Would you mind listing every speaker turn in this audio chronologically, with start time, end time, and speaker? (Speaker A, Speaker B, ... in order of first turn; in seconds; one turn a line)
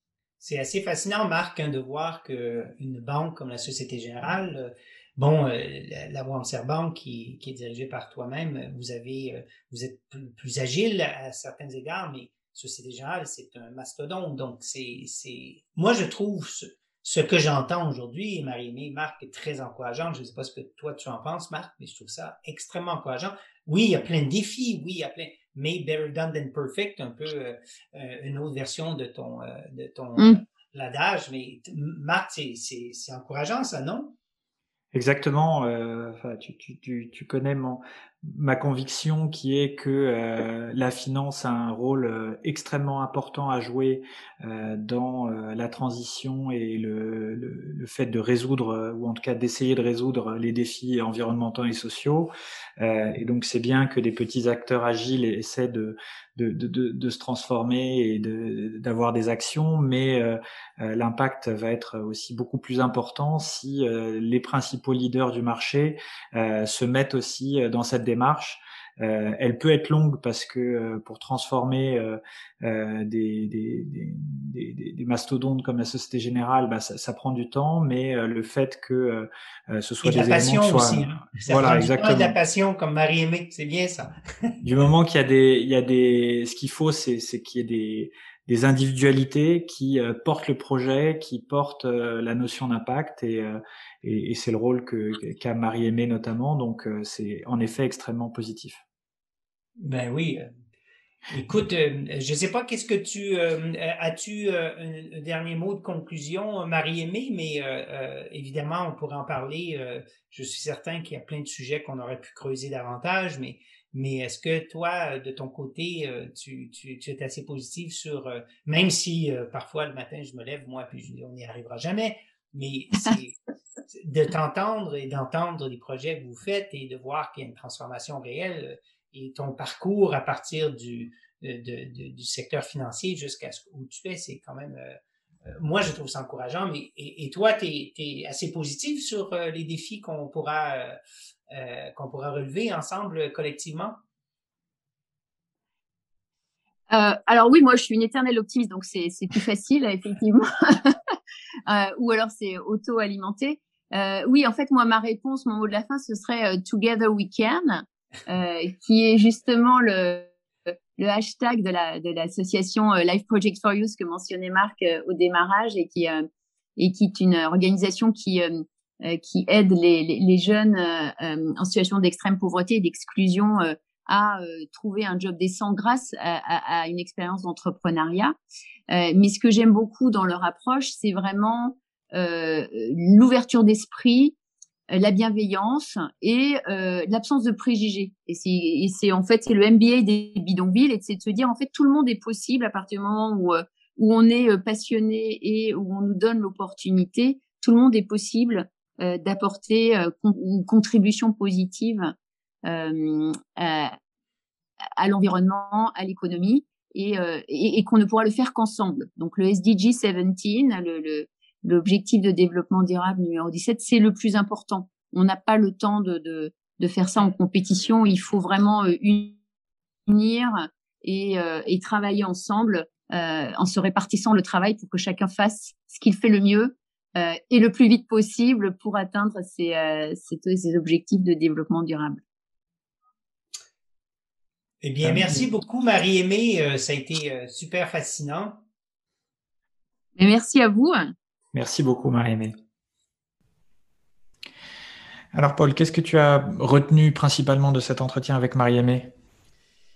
Speaker A: 0.4-34.1
Speaker B: 34.9-82.4
Speaker A: 80.0-84.5
Speaker B: 84.6-98.8
Speaker A: 99.8-100.5
Speaker A: 101.3-123.4
Speaker A: 123.9-141.0
Speaker A: 141.5-144.0
Speaker C: 146.9-151.0
Speaker C: 151.7-166.3
Speaker C: 166.8-178.4
Speaker C: 178.9-184.4
Speaker C: 184.9-202.1
Speaker C: 202.7-203.9
Speaker C: 205.0-219.4
Speaker C: 220.1-232.2
Speaker A: 234.8-238.6
Speaker B: 235.0-235.4
Speaker C: 240.2-241.1
Speaker B: 241.5-242.5
Speaker B: 245.3-249.1